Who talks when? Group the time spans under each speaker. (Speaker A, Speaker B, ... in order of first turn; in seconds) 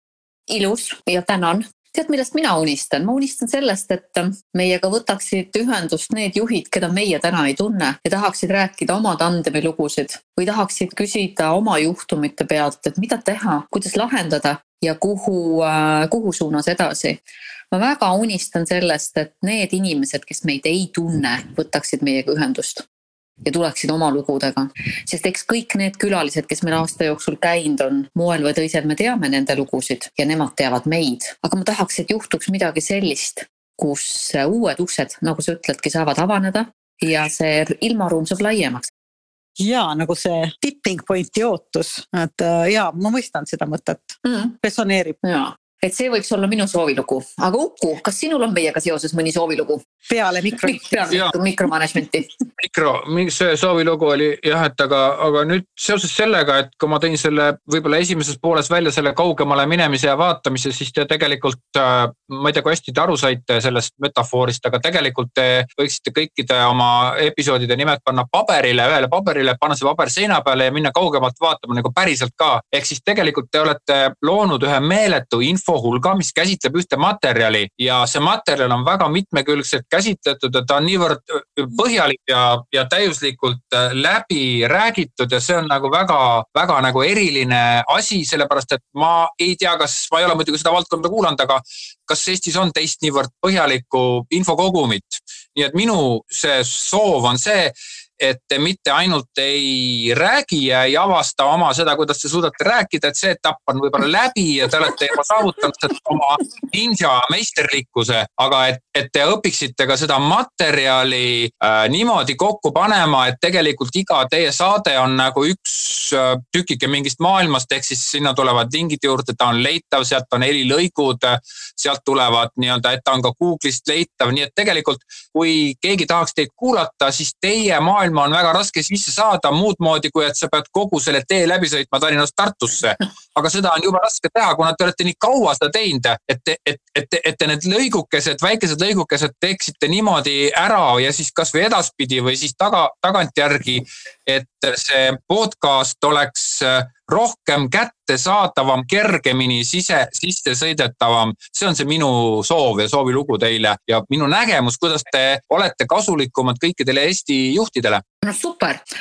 Speaker A: 0.5-17.2, 17.7-22.8, 23.4-38.9, 44.2-44.5, 45.2-49.8, 50.6-52.3, 158.2-158.8
Speaker B: 39.6-45.1, 50.1-51.1
Speaker C: 52.6-158.0